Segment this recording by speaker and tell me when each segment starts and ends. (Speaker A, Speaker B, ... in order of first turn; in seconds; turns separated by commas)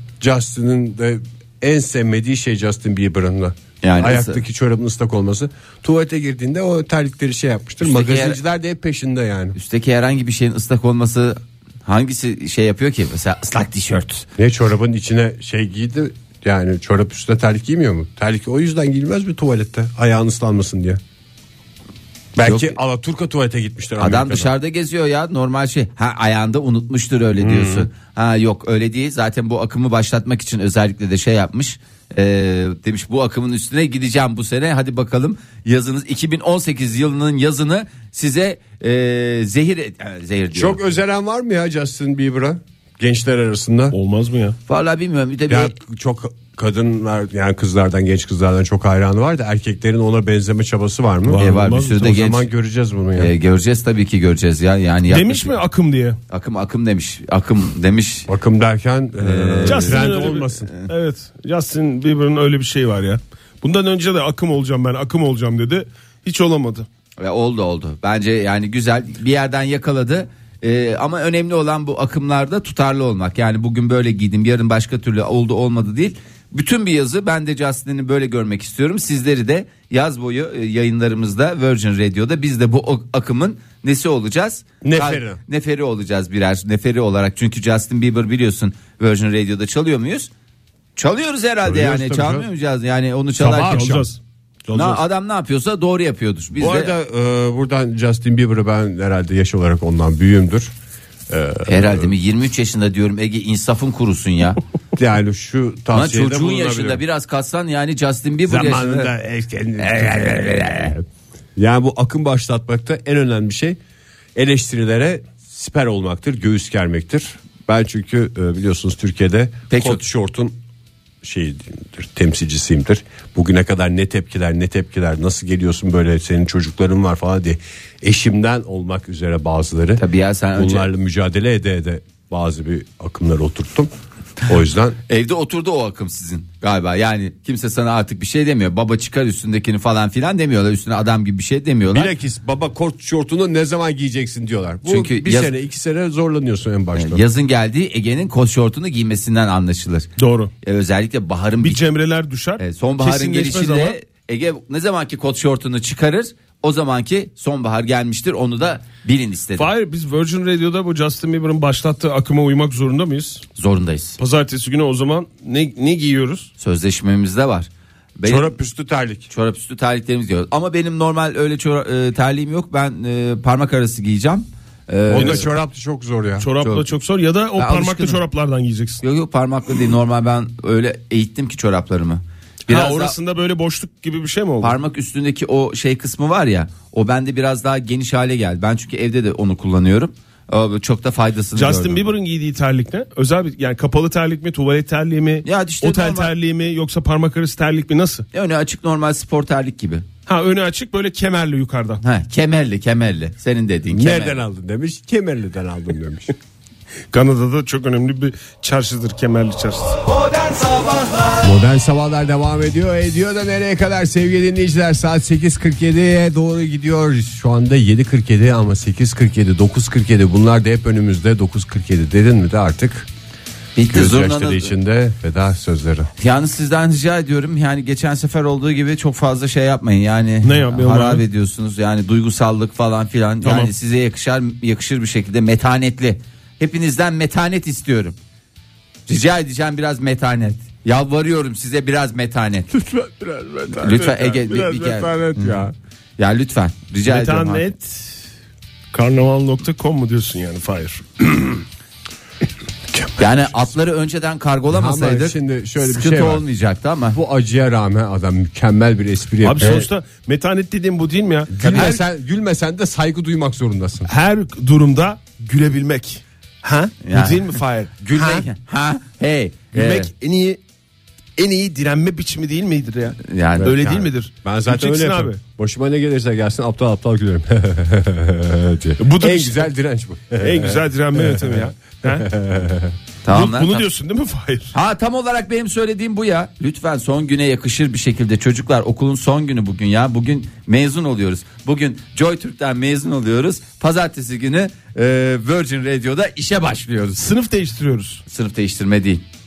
Speaker A: 0.2-9.6, Speaker B: 3.8-4.4, Speaker B: 7.8-8.4, Speaker B: 9.6-14.2, Speaker A: 14.4-21.0, Speaker A: 22.4-24.5, Speaker B: 22.4-22.8, Speaker B: 24.0-40.9, Speaker A: 27.4-27.9, Speaker A: 40.5-44.0, Speaker C: 43.9-44.6, Speaker B: 44.7-45.8, Speaker A: 45.5-51.4, Speaker C: 51.3-52.2, Speaker B: 51.3-52.4, Speaker A: 52.0-53.3, Speaker B: 53.1-55.6, Speaker C: 55.1-56.2, Speaker B: 56.3-58.3, Speaker A: 58.3-60.7, Speaker B: 59.2-60.9, Speaker C: 59.7-66.8, Speaker B: 67.2-90.3, Speaker A: 84.8-85.4, Speaker B: 91.0-94.0, Speaker A: 91.6-92.5, Speaker A: 93.4-94.1, Speaker C: 93.4-94.2, Speaker A: 94.7-95.0, Speaker B: 94.7-96.9, Speaker A: 96.5-100.7, Speaker A: 101.3-102.1, Speaker B: 101.7-104.6, Speaker A: 105.0-107.0, Speaker B: 105.9-109.1, Speaker A: 108.5-111.0, Speaker B: 109.8-110.9, Speaker A: 111.5-113.8, Speaker A: 114.3-120.6, Speaker B: 119.7-120.0, Speaker A: 121.2-130.0, Speaker B: 130.0-130.9, Speaker A: 130.5-133.9, Speaker A: 134.5-135.0, Speaker B: 135.1-142.1, Speaker A: 141.9-147.2, Speaker B: 144.8-145.5, Speaker B: 146.9-150.1, Speaker C: 150.2-150.5, Speaker B: 150.6-151.8, Speaker C: 151.6-154.0, Speaker B: 152.6-159.7, Speaker C: 159.6-163.4, Speaker B: 163.6-164.2, Speaker C: 164.2-166.5, Speaker B: 166.6-168.6, Speaker A: 168.2-169.3, Speaker B: 169.3-175.5, Speaker A: 175.1-176.5, Speaker C: 175.1-175.5, Speaker C: 176.4-179.0, Speaker B: 176.6-176.8, Speaker B: 177.6-178.2, Speaker B: 179.0-183.2, Speaker C: 182.7-184.8, Speaker B: 184.6-192.1, Speaker C: 191.5-198.2, Speaker B: 195.4-196.3, Speaker B: 198.3-200.1, Speaker C: 200.3-202.0, Speaker B: 202.0-204.4, Speaker A: 203.9-206.3, Speaker C: 207.1-210.0, Speaker A: 211.4-223.1, Speaker B: 223.8-224.7, Speaker A: 223.9-226.1, Speaker B: 226.2-238.2, Speaker C: 230.4-231.2, Speaker C: 233.4-233.7, Speaker B: 239.1-242.7, Speaker C: 242.7-245.6, Speaker B: 243.8-245.6, Speaker A: 245.3-245.7, Speaker B: 246.2-247.7, Speaker C: 247.1-248.2, Speaker C: 248.9-251.6, Speaker B: 253.2-257.2, Speaker A: 254.7-256.4, Speaker A: 257.1-259.9, Speaker C: 259.4-262.0, Speaker A: 261.5-264.1, Speaker B: 261.6-261.9, Speaker C: 264.1-268.5, Speaker B: 267.0-270.1, Speaker C: 269.7-270.6, Speaker C: 271.4-275.4, Speaker B: 273.2-274.0, Speaker A: 274.4-282.9, Speaker C: 279.0-279.7, Speaker C: 280.4-282.3, Speaker B: 283.2-283.9, Speaker C: 283.3-284.7, Speaker B: 284.7-297.2, Speaker C: 297.1-298.2, Speaker B: 298.3-299.2